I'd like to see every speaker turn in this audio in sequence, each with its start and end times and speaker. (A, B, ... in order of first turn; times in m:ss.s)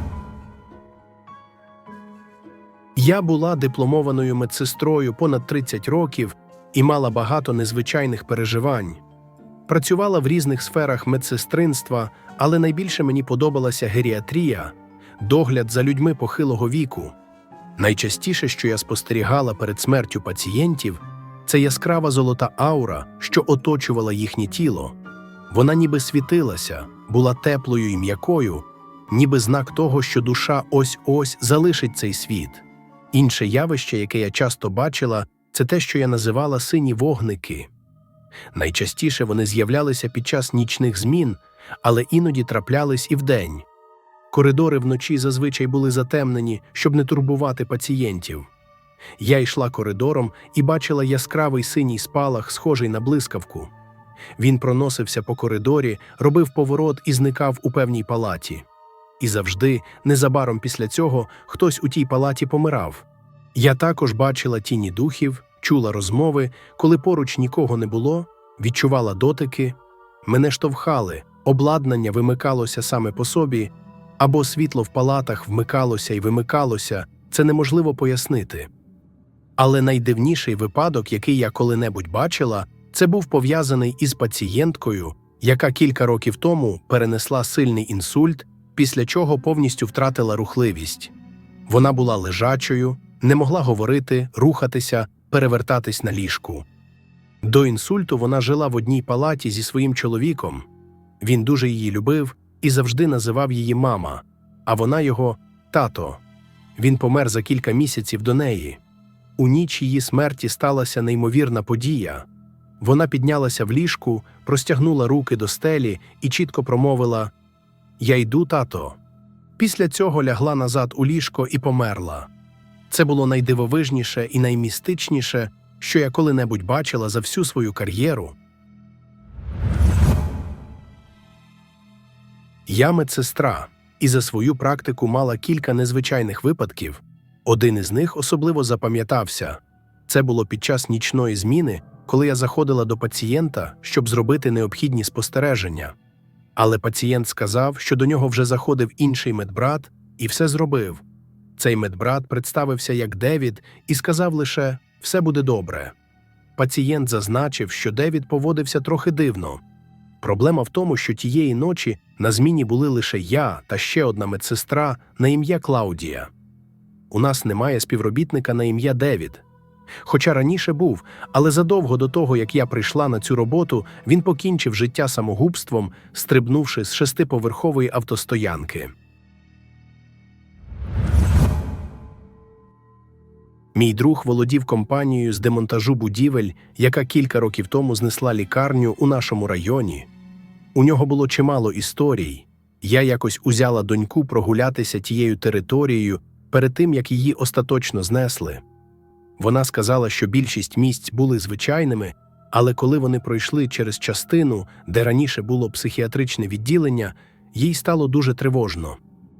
0:02.9-0:09.0 A
0:09.7-0:17.1 A
0:17.8-0:25.0 A
0:25.5-0:37.7 A
0:38.5-0:43.7 A
0:44.3-0:48.5 A
0:49.2-0:53.7 A
0:54.4-0:58.6 A
0:59.2-1:18.7 A
1:19.6-1:31.1 A
1:31.7-1:36.7 A
1:37.4-1:40.7 A
1:41.2-1:46.2 A
1:46.8-1:48.8 A
1:49.4-1:52.3 A
1:52.8-1:57.3 A
1:58.0-1:59.0 A
1:59.6-2:02.3 A
2:02.9-2:08.4 A
2:12.6-2:25.9 A
2:26.6-2:31.0 A
2:31.6-2:35.9 A
2:36.6-2:39.6 A
2:40.2-2:46.3 A
2:47.1-2:49.4 A
2:50.0-2:58.9 A
3:03.7-3:10.1 A
3:10.7-3:18.6 A
3:19.4-3:29.0 A